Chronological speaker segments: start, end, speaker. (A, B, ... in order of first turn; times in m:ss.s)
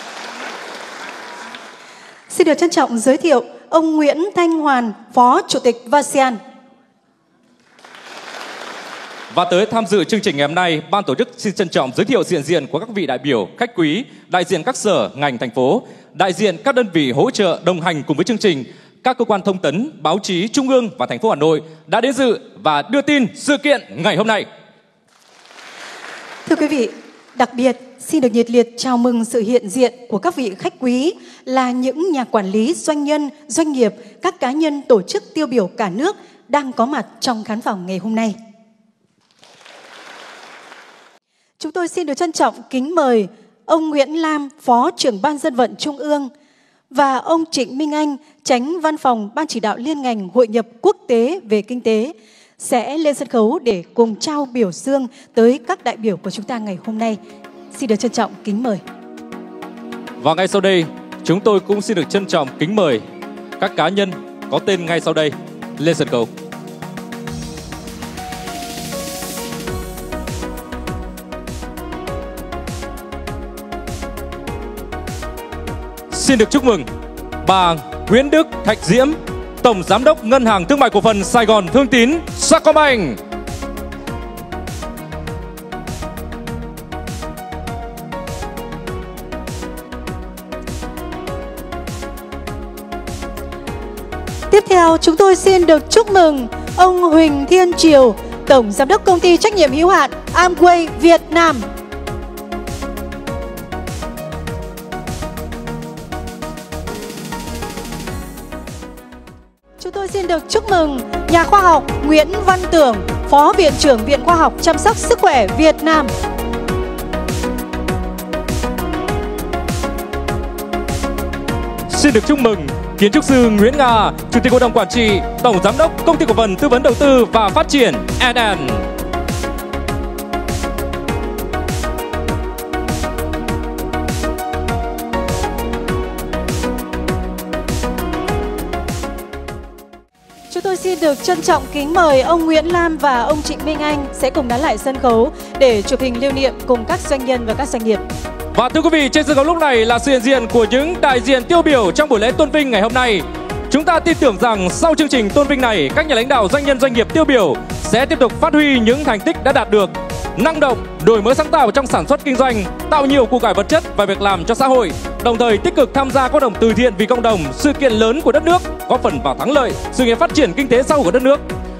0:02.3-0:06.4 A
0:09.3-0:24.4 B
0:26.4-0:38.4 A
0:41.6-0:46.3 A
0:46.9-0:57.2 A
0:57.7-0:58.8 A
1:00.2-1:03.0 B
1:03.6-1:06.3 B
1:16.1-1:16.9 B
1:17.4-1:23.2 B
1:34.5-1:41.6 A
1:49.8-1:56.1 A
2:01.9-2:08.9 B
2:20.5-2:28.0 A
2:28.5-2:51.4 B